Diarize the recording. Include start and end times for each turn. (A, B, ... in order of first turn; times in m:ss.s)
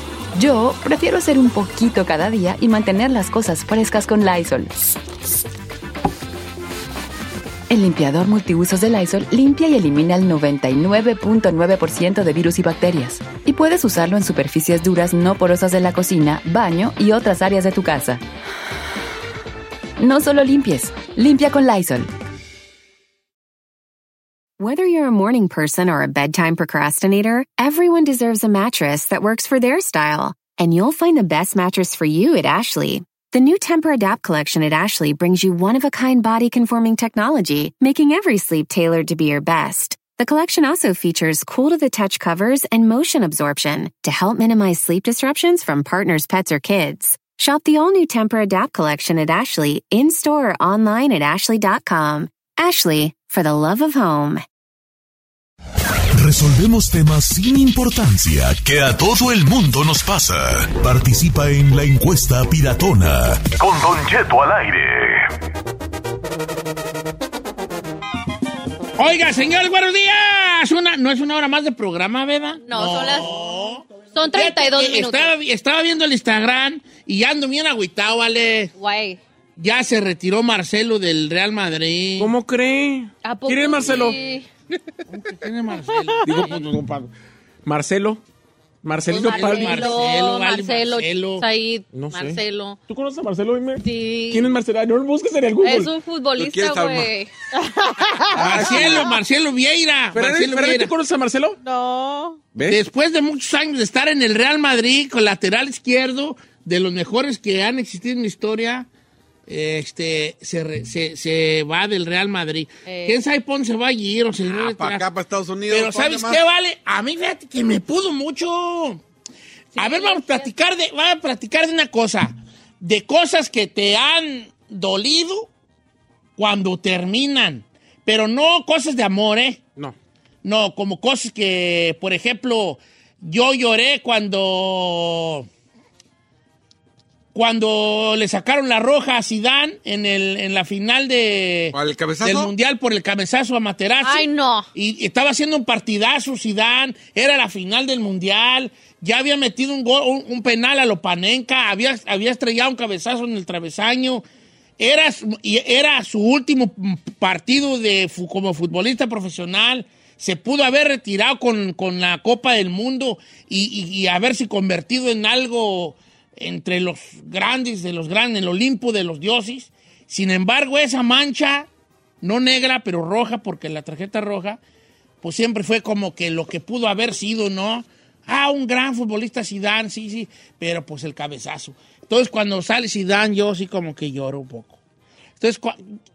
0:00.4-0:04.9 A
0:07.7-0:18.2 A
0:20.0-0:22.1 A
0:24.6-0:54.4 B
0:56.2-1:05.2 C
1:09.0-1:18.7 D
1:12.7-1:13.4 E
1:14.1-1:15.3 E
1:18.8-1:19.2 E
1:19.6-1:22.3 D
1:22.2-1:24.2 F
1:23.2-1:24.4 E
1:25.1-1:26.4 D
1:25.8-1:26.6 G
1:26.2-1:27.1 F
1:27.6-1:28.2 F
1:28.8-1:30.0 F
1:29.1-1:31.4 D
1:29.2-1:32.8 E
1:31.9-1:35.9 F
1:33.8-1:34.5 E
1:35.6-1:37.3 E
1:36.4-1:37.1 H
1:37.5-1:38.7 G
1:38.3-1:40.9 D
1:38.4-1:39.0 F
1:40.1-1:41.6 F
1:41.6-1:42.4 G
1:42.5-1:42.8 F
1:42.7-1:48.9 D
1:49.5-1:55.0 D
1:52.8-1:53.2 E
1:54.4-1:56.4 H
1:55.7-1:59.0 D
1:59.7-2:00.5 E
1:59.8-2:05.5 D
2:06.4-2:09.6 D
2:10.4-2:15.5 D
2:17.3-2:34.2 D
2:21.7-2:22.5 H
2:24.0-2:24.7 E
2:34.8-2:51.7 D
2:52.2-2:54.6 D
2:55.2-3:04.8 D
3:05.4-3:05.8 D